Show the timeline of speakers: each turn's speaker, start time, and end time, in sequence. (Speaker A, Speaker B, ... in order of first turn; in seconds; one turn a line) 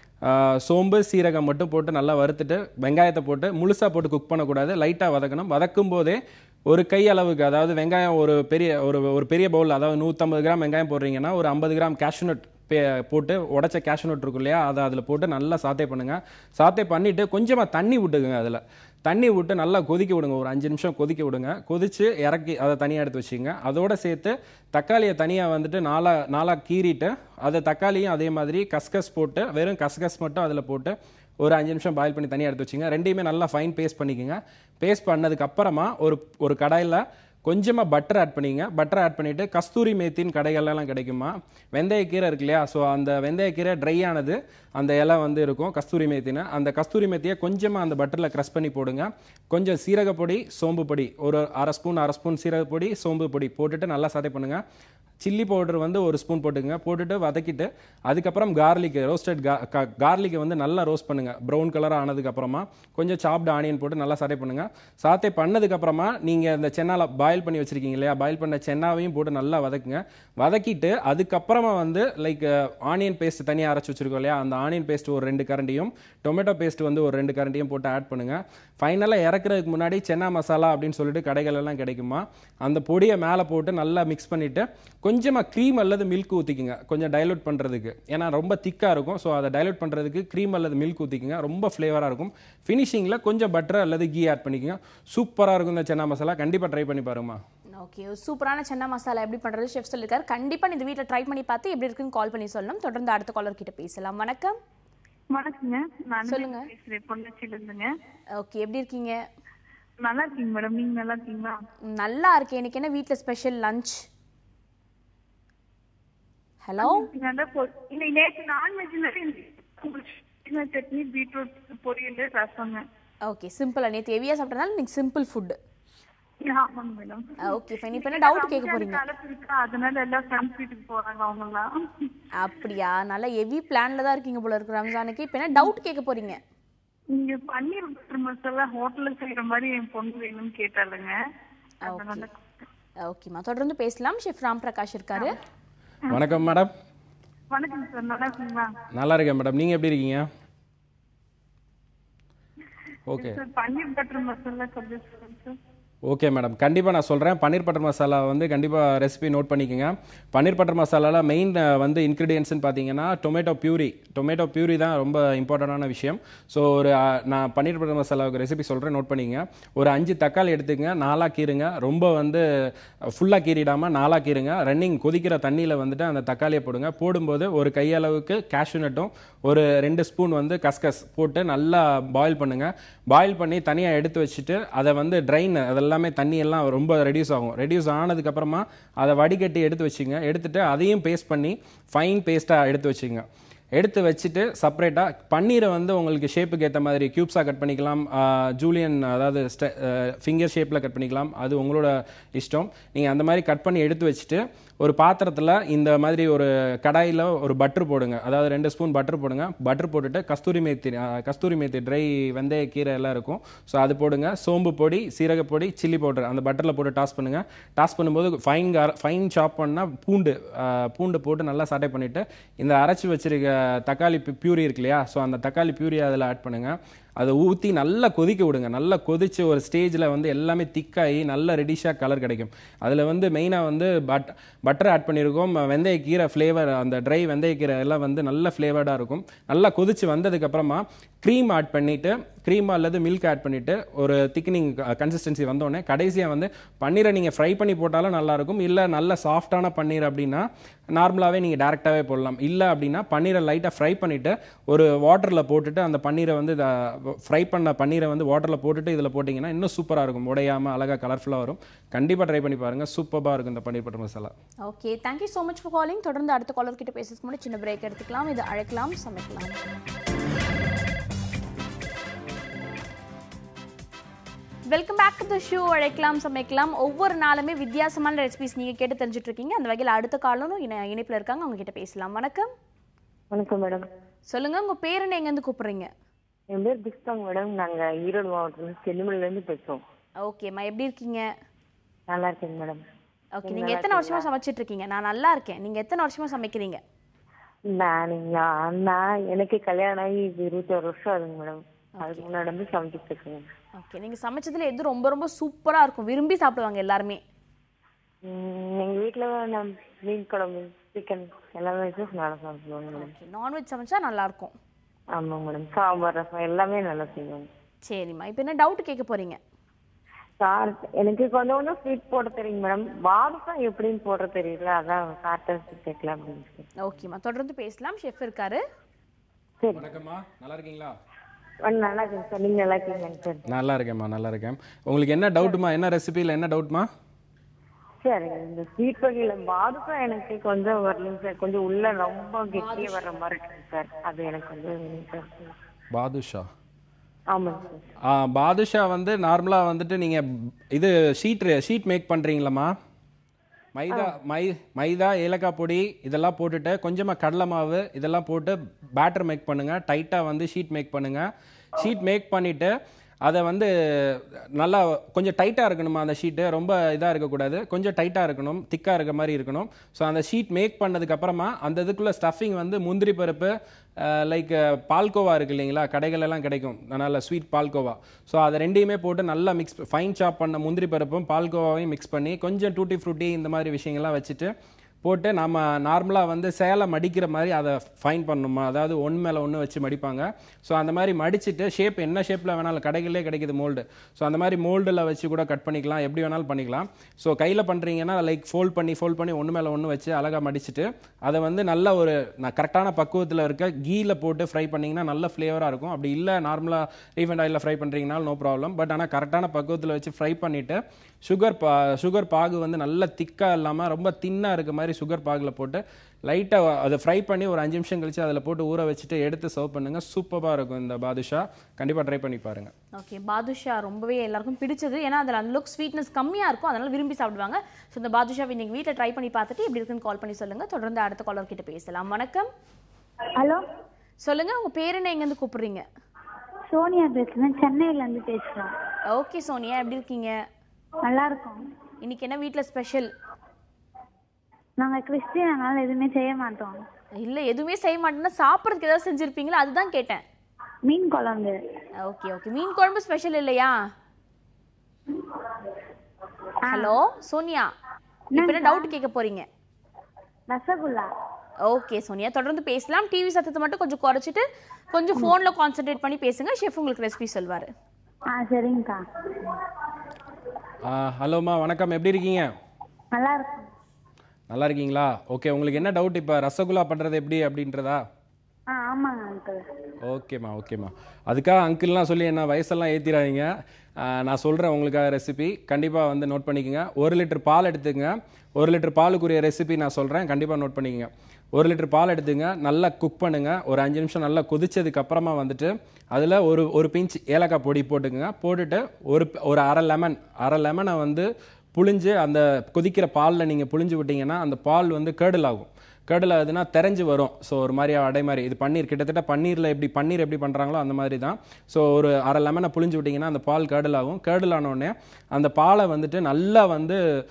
Speaker A: 0.2-54.6
Speaker A: 55.2-97.4
Speaker B: 97.8-104.6
Speaker C: 105.3-107.9
Speaker B: 106.3-106.6
Speaker B: 108.4-109.2
Speaker C: 110.0-111.6
Speaker B: 111.8-114.0
Speaker B: 116.6-117.0
Speaker C: 116.8-122.8
Speaker B: 123.3-125.5
Speaker C: 126.4-127.2
Speaker B: 127.4-129.0
Speaker C: 127.9-131.7
Speaker B: 132.4-136.4
Speaker C: 137.1-141.2
Speaker B: 141.8-142.3
Speaker C: 141.8-142.3
Speaker B: 143.0-145.3
Speaker A: 146.1-146.7
Speaker C: 147.5-148.7
Speaker A: 148.9-150.3
Speaker A: 153.1-153.4
Speaker C: 153.2-155.6
Speaker A: 156.1-172.4
Speaker A: 173.1-264.3
Speaker B: 264.6-269.6
Speaker B: 274.7-282.5
Speaker D: 283.3-283.8
Speaker B: 284.3-285.9
Speaker D: 286.5-289.8
Speaker B: 290.2-291.2
Speaker D: 292.1-292.8
Speaker B: 293.4-296.8
Speaker D: 293.4-294.3
Speaker D: 297.7-303.5
Speaker B: 302.0-302.2
Speaker B: 303.8-307.2
Speaker D: 308.2-313.1
Speaker B: 313.0-314.5
Speaker D: 315.1-317.5
Speaker B: 317.9-319.4
Speaker D: 320.4-326.7
Speaker B: 326.8-328.6
Speaker D: 329.6-329.9
Speaker A: 329.7-330.9
Speaker D: 331.6-333.4
Speaker A: 333.5-336.9
Speaker D: 338.0-345.5
Speaker B: 342.5-343.0
Speaker A: 345.9-346.5
Speaker D: 347.3-347.9
Speaker A: 348.0-352.7
Speaker A: 353.7-362.7
Speaker A: 363.2-384.5
Speaker A: 385.0-422.7
Speaker B: 422.9-432.5
Speaker E: 433.4-433.6
Speaker B: 434.2-435.8
Speaker E: 436.7-438.7
Speaker B: 439.1-440.3
Speaker E: 441.1-441.6
Speaker B: 442.0-443.1
Speaker E: 444.8-446.8
Speaker B: 447.2-450.2
Speaker E: 450.9-451.5
Speaker B: 452.0-453.7
Speaker E: 456.7-457.0
Speaker B: 456.7-457.7
Speaker E: 458.3-458.9
Speaker B: 458.4-459.4
Speaker E: 460.5-461.1
Speaker B: 461.7-467.7
Speaker E: 468.3-469.0
Speaker A: 470.8-472.5
Speaker E: 473.1-473.6
Speaker A: 474.5-478.0
Speaker E: 478.7-479.6
Speaker A: 480.0-517.0